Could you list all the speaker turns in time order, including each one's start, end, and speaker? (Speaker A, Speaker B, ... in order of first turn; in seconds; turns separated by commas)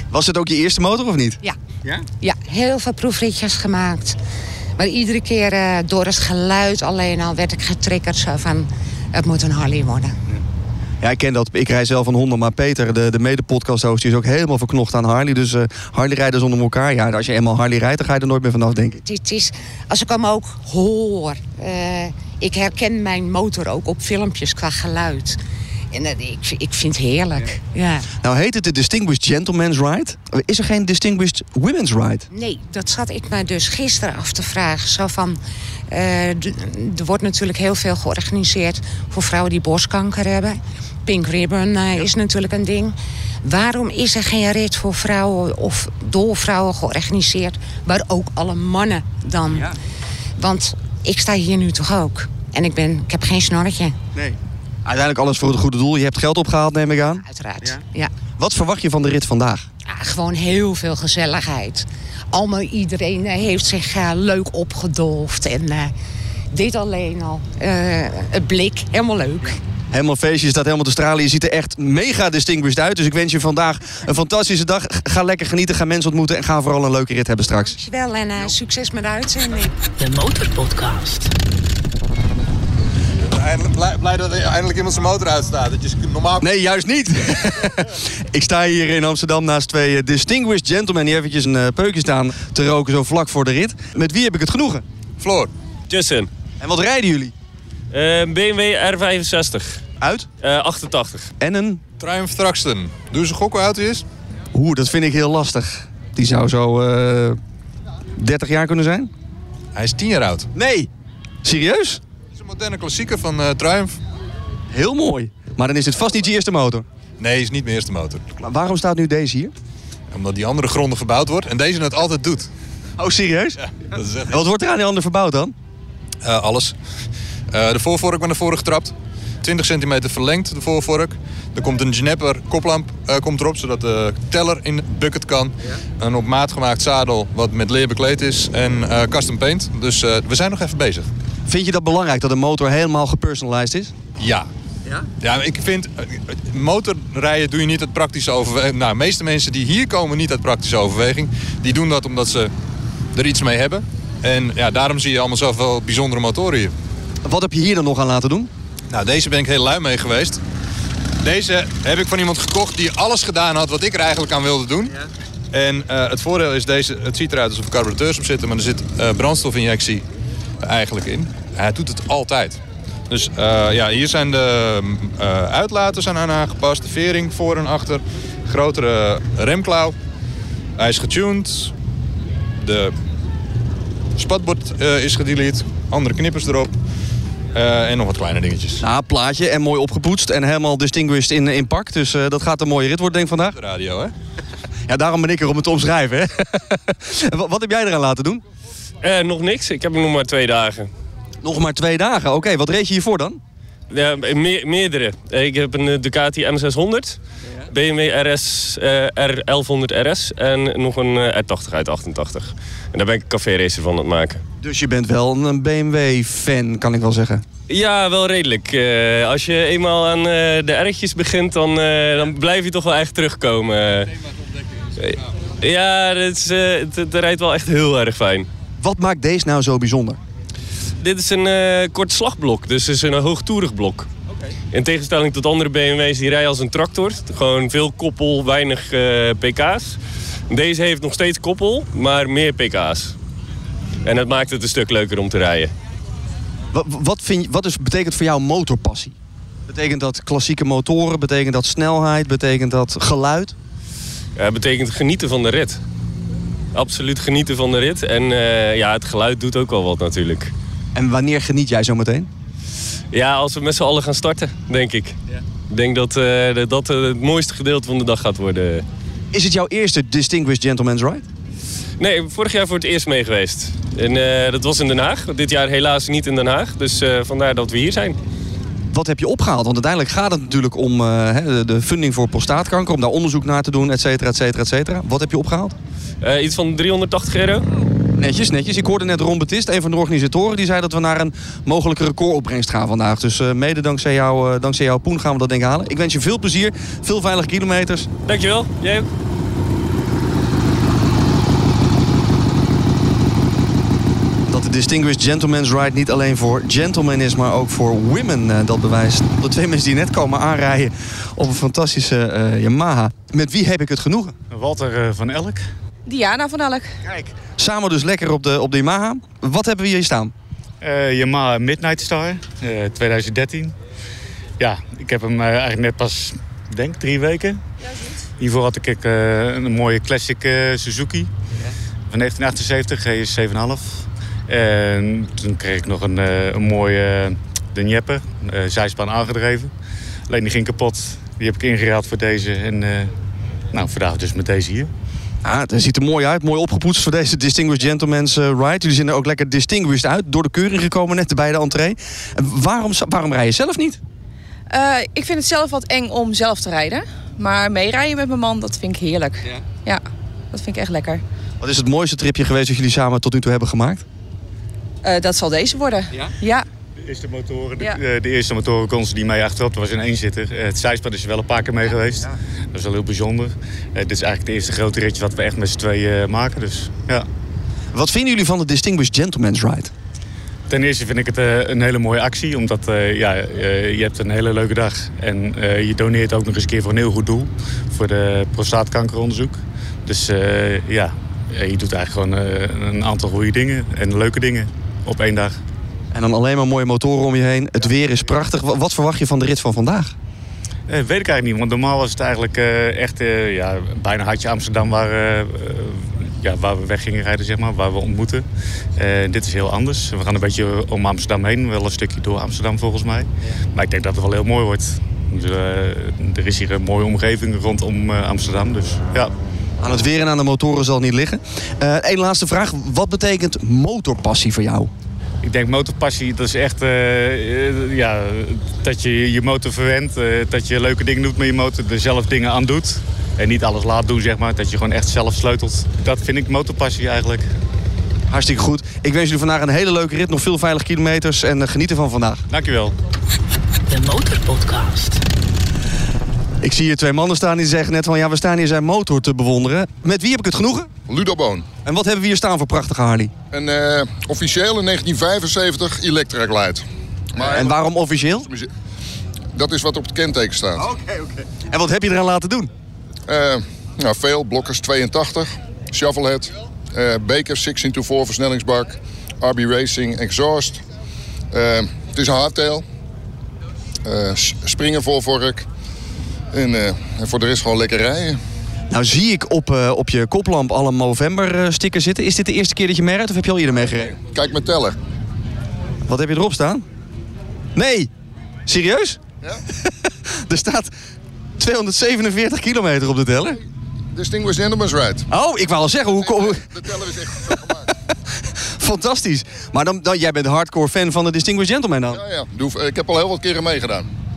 Speaker A: 0.1-2.0, Speaker B: 2.2-4.2, Speaker B: 4.8-10.2, Speaker A: 11.0-19.0, Speaker B: 19.0-25.4, Speaker B: 25.9-28.1, Speaker A: 28.2-32.3, Speaker B: 32.3-49.7, Speaker B: 50.4-54.0, Speaker A: 54.1-57.8, Speaker B: 57.2-58.1, Speaker A: 58.4-59.7, Speaker B: 59.9-65.9, Speaker B: 66.5-69.6, Speaker A: 69.9-77.8, Speaker B: 77.7-79.7, Speaker C: 80.0-81.3, Speaker D: 83.2-86.5, Speaker A: 86.4-94.8, Speaker D: 95.2-95.5, Speaker E: 95.9-96.3, Speaker A: 96.6-97.3, Speaker E: 97.9-99.8, Speaker A: 100.0-100.3, Speaker E: 100.4-101.3, Speaker A: 101.4-101.8, Speaker D: 102.0-104.0, Speaker A: 104.5-107.4, Speaker A: 108.2-109.1, Speaker D: 109.8-110.5, Speaker A: 110.5-110.9, Speaker A: 111.4-112.0, Speaker D: 112.4-114.0, Speaker A: 114.7-116.9, Speaker D: 117.2-118.3, Speaker A: 118.4-119.5, Speaker D: 120.1-122.5, Speaker A: 123.0-123.6, Speaker D: 123.6-124.4, Speaker A: 124.3-125.5, Speaker D: 126.2-126.8, Speaker D: 127.5-141.1, Speaker A: 141.5-143.9, Speaker D: 144.2-144.5, Speaker D: 145.2-152.5, Speaker D: 153.1-156.7, Speaker A: 157.2-158.5, Speaker D: 158.9-160.4, Speaker D: 161.2-165.0, Speaker D: 165.5-170.1, Speaker D: 170.6-179.9, Speaker D: 180.8-181.7, Speaker D: 182.6-182.9, Speaker D: 184.2-186.7, Speaker D: 187.5-188.8, Speaker A: 188.8-193.6, Speaker D: 193.5-194.1, Speaker A: 194.9-198.4, Speaker E: 199.0-200.9, Speaker A: 201.4-203.4, Speaker E: 203.9-207.2, Speaker E: 207.7-214.4, Speaker A: 214.6-217.4, Speaker E: 217.7-224.1, Speaker E: 225.0-228.5, Speaker A: 228.8-230.2, Speaker E: 231.0-234.1, Speaker E: 234.7-240.0, Speaker E: 240.5-243.2, Speaker E: 244.1-245.7, Speaker A: 246.7-249.2, Speaker A: 249.7-253.6, Speaker E: 254.4-255.8, Speaker E: 256.7-260.5, Speaker A: 260.9-262.3, Speaker E: 263.1-265.1, Speaker E: 265.7-268.9, Speaker A: 269.3-271.2, Speaker E: 272.0-278.2, Speaker A: 278.9-285.8, Speaker E: 286.2-287.7, Speaker A: 288.2-298.1, Speaker E: 298.3-299.1, Speaker A: 304.5-314.4, Speaker F: 314.5-315.6, Speaker G: 316.1-317.0, Speaker A: 317.1-320.3, Speaker F: 320.8-323.8, Speaker F: 324.6-327.6, Speaker F: 328.4-331.3, Speaker F: 332.1-339.7, Speaker F: 340.3-343.1, Speaker F: 343.7-344.9, Speaker A: 345.4-354.0, Speaker G: 354.7-361.2, Speaker A: 361.6-364.0, Speaker G: 365.0-366.7, Speaker F: 367.0-377.3, Speaker A: 377.9-379.9, Speaker F: 380.7-395.6, Speaker A: 396.1-400.1, Speaker F: 400.9-419.3, Speaker A: 419.8-424.9, Speaker F: 425.4-437.5, Speaker A: 438.3-442.4, Speaker F: 442.5-442.9, Speaker C: 443.9-445.2, Speaker A: 446.6-450.9, Speaker H: 451.1-451.7, Speaker A: 451.9-453.3, Speaker H: 453.5-457.8, Speaker A: 457.4-458.5, Speaker H: 458.4-458.7, Speaker H: 459.6-460.9, Speaker A: 460.8-462.7, Speaker H: 463.3-470.8, Speaker H: 471.5-472.9, Speaker H: 474.1-475.7, Speaker H: 476.5-478.4, Speaker A: 478.9-484.1, Speaker H: 484.2-485.0, Speaker A: 486.1-486.8, Speaker A: 487.8-488.1, Speaker A: 488.7-489.2, Speaker A: 489.9-490.9, Speaker A: 491.6-493.6, Speaker H: 494.1-495.3, Speaker A: 495.3-496.6, Speaker H: 496.1-497.9, Speaker A: 498.8-502.2, Speaker H: 502.1-504.1